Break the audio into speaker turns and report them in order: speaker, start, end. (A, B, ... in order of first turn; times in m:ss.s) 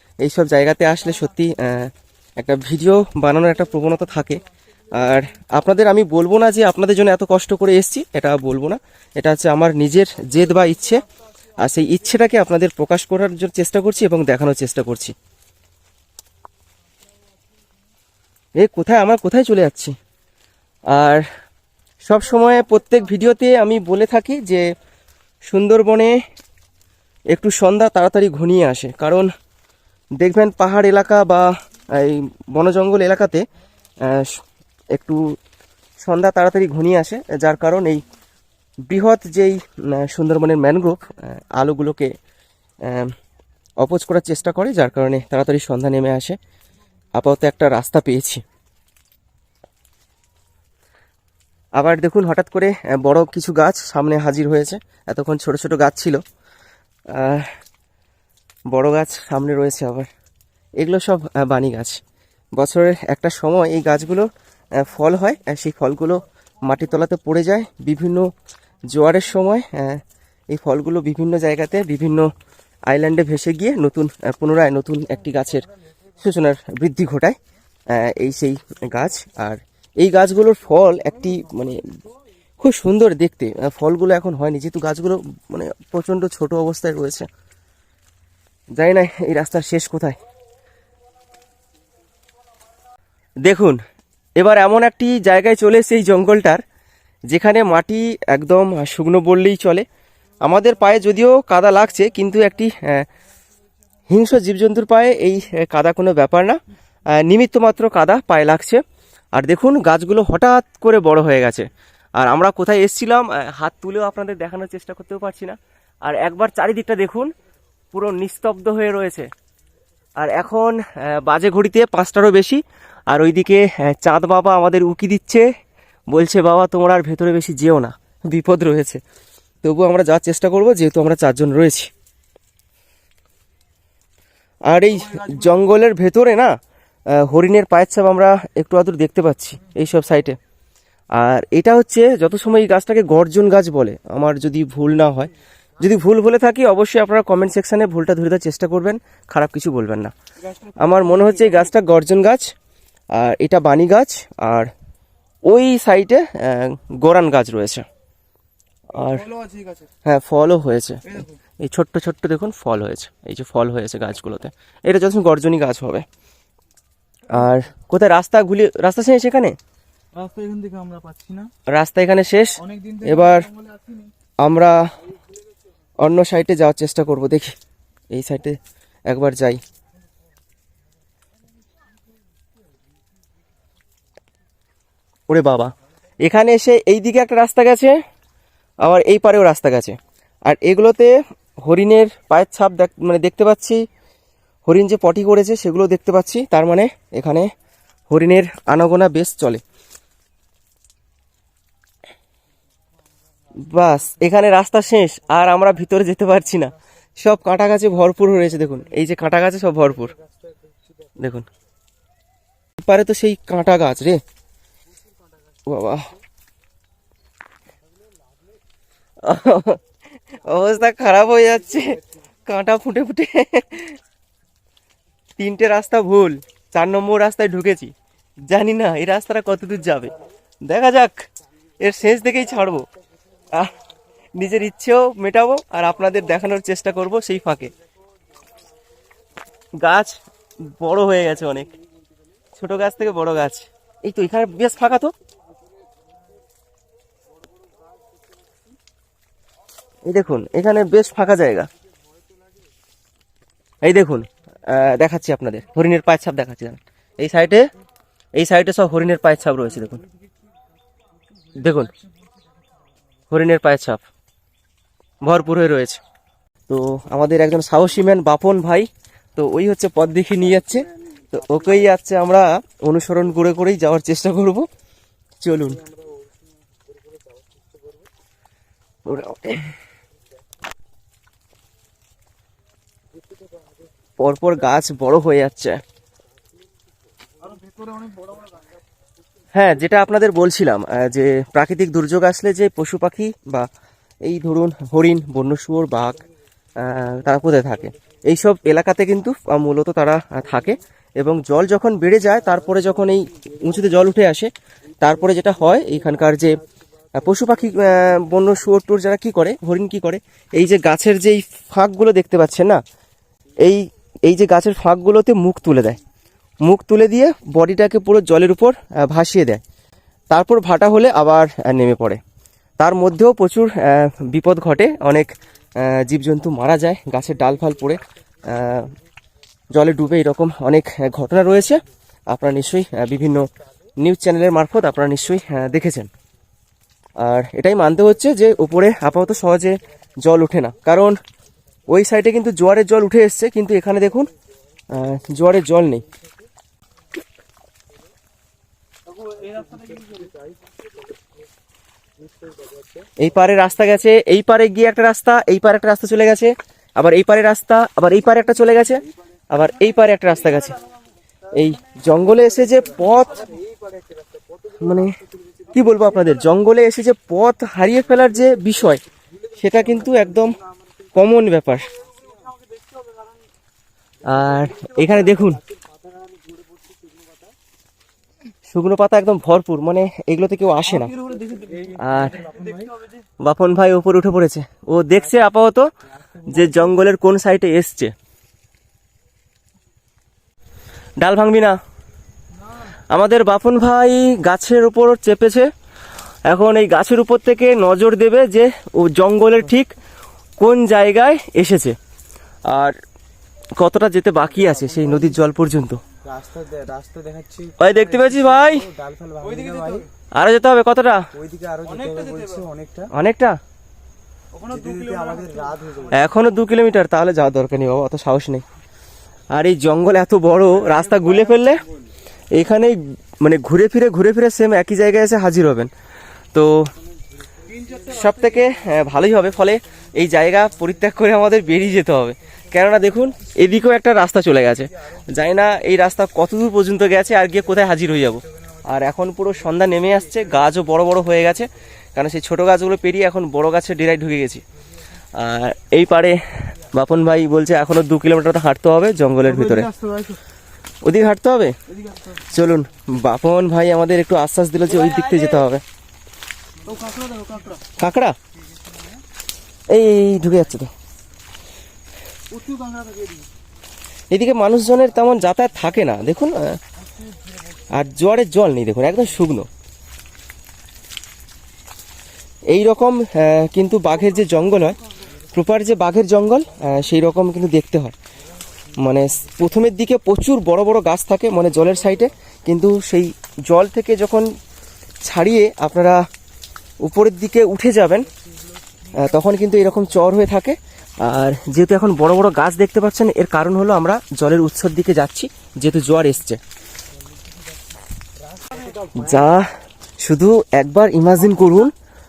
0:00.2-0:11.0 A
0:11.6-0:15.1 A
0:18.6-0:19.9 A
0:20.9-0:21.2 A
0:22.0-0:24.7 A
0:25.5-0:26.2 A
0:27.3-0:29.3 A
0:30.2-0:33.4 A
0:34.0-0:34.4 A
0:34.9-0:35.3 A
0:36.0-0:38.0 A
0:38.9-0:42.1 A
0:42.8-0:43.1 A
0:43.8-0:46.4 A
0:47.1-0:48.4 A
0:51.8-0:56.2 A
0:57.1-0:57.5 A
0:58.7-1:00.1 A
1:00.8-1:02.0 A
1:02.6-1:08.3 A
1:08.9-1:12.3 A
1:12.9-1:15.6 A
1:16.2-1:17.4 A
1:17.9-1:22.0 A
1:22.6-1:27.3 A
1:28.7-1:30.2 A
1:33.4-1:33.8 A
1:34.4-1:36.6 A
1:37.3-1:39.8 A
1:40.4-1:43.1 A
1:44.1-1:46.6 A
1:47.1-1:48.8 A
1:49.3-1:57.3 A
1:57.9-1:59.3 A
2:00.2-2:05.5 A
2:06.1-2:09.0 A
2:09.6-2:11.9 A
2:14.7-2:16.5 A
2:14.9-2:15.7 B
2:17.1-2:20.4 A
2:21.1-2:30.1 A
2:30.4-2:31.7 B
2:30.8-2:32.5 A
2:33.1-2:34.7 A
2:35.5-2:37.8 A
2:39.0-2:39.2 A
2:39.0-2:39.9 B
2:40.0-2:46.0 A
2:41.0-2:41.4 B
2:47.3-2:49.6 A
2:50.1-2:51.5 B
2:51.7-2:53.5 A
2:52.6-2:54.1 B
2:54.4-2:54.9 A
2:56.0-2:57.6 A
2:58.1-2:59.6 A
3:05.3-3:08.0 A
3:08.8-3:13.8 A
3:14.6-3:17.5 A
3:18.1-3:19.6 A
3:23.6-3:30.1 A
3:29.9-3:31.2 C
3:31.2-3:31.4 A
3:32.8-3:34.2 A
3:35.6-3:36.1 A
3:37.8-3:38.6 C
3:39.2-3:39.8 A
3:40.4-3:44.0 A
3:40.6-3:42.0 C
3:45.4-3:47.9 A
3:48.5-3:50.1 A
3:50.6-3:51.2 A
3:51.8-3:52.8 A
3:54.4-3:57.7 A
3:59.8-4:01.7 A
4:02.6-4:05.1 A
4:05.6-4:06.0 C
4:07.4-4:08.7 C
4:10.0-4:11.7 A
4:12.1-4:12.6 C
4:13.8-4:17.7 A
4:18.3-4:20.0 A
4:21.6-4:21.9 A
4:23.3-4:24.0 A
4:25.2-4:26.0 A
4:26.7-4:34.6 A
4:30.5-4:31.9 C
4:35.4-4:35.8 A
4:35.6-4:38.1 C
4:39.0-4:39.7 A
4:43.1-4:43.9 C
4:44.2-4:45.8 A
4:47.4-4:48.7 B
4:49.5-4:53.7 A
4:54.2-4:56.2 A
4:56.8-5:04.5 A
5:02.5-5:03.6 C
5:05.0-5:06.6 A
5:05.0-5:06.6 C
5:07.1-5:12.8 A
5:07.2-5:08.1 C
5:13.6-5:16.0 A
5:16.6-5:19.6 A
5:20.3-5:22.2 A
5:22.8-5:28.9 A
5:29.7-5:36.1 A
5:37.2-5:41.2 A
5:41.9-5:44.3 A
5:44.9-5:46.0 A
5:46.1-5:46.4 C
5:49.1-5:50.3 B
5:49.4-5:51.2 C
5:52.2-5:53.1 C
5:53.2-6:00.8 A
5:58.7-5:59.2 C
6:00.3-6:00.8 C
6:01.5-6:06.2 C
6:01.5-6:03.5 A
6:04.8-6:05.1 A
6:05.7-6:09.0 A
6:09.3-6:10.7 C
6:09.6-6:10.6 A
6:11.1-6:11.9 A
6:12.0-6:13.4 B
6:12.0-6:12.5 C
6:14.2-6:17.5 C
6:14.2-6:15.6 A
6:18.7-6:21.1 A
6:20.9-6:23.2 B
6:21.6-6:22.9 C
6:22.0-6:22.4 A
6:23.4-6:25.9 A
6:26.0-6:27.0 C
6:26.5-6:28.1 A
6:31.2-6:31.8 A
6:33.1-6:35.7 A
6:36.5-6:39.9 A
6:40.6-6:42.0 A
6:42.7-6:43.0 A
6:43.8-6:46.0 A
6:44.4-6:45.4 C
6:46.2-6:50.0 C
6:47.8-6:48.8 A
6:49.4-6:50.0 B
6:50.3-6:51.3 A
6:51.3-6:53.1 C
6:51.8-6:52.6 B
6:53.1-6:53.6 A
6:54.5-6:56.3 B
6:54.7-6:56.2 C
6:56.1-6:58.6 A
6:59.5-7:01.8 A
7:00.9-7:02.1 C
7:02.5-7:05.9 A
7:06.5-7:06.9 A
7:07.0-7:08.4 C
7:07.7-7:09.7 B
7:08.1-7:24.6 A
7:25.3-7:29.9 A
7:29.4-7:30.4 B
7:31.0-7:31.8 A
7:31.9-7:32.6 B
7:32.5-7:35.8 A
7:34.9-7:35.6 B
7:36.8-7:37.8 B
7:38.0-7:38.4 A
7:38.9-7:39.2 B
7:39.9-7:40.9 A
7:42.5-7:43.4 B
7:44.3-7:46.8 A
7:47.2-7:47.9 C
7:47.9-7:49.7 A
7:52.7-7:55.0 A
7:55.5-7:58.2 A
7:58.7-7:59.6 C
7:59.0-8:04.5 A
8:05.2-8:06.2 A
8:07.0-8:08.3 A
8:09.1-8:16.6 A
8:18.4-8:19.5 C
8:19.1-8:19.7 A
8:20.2-8:21.9 A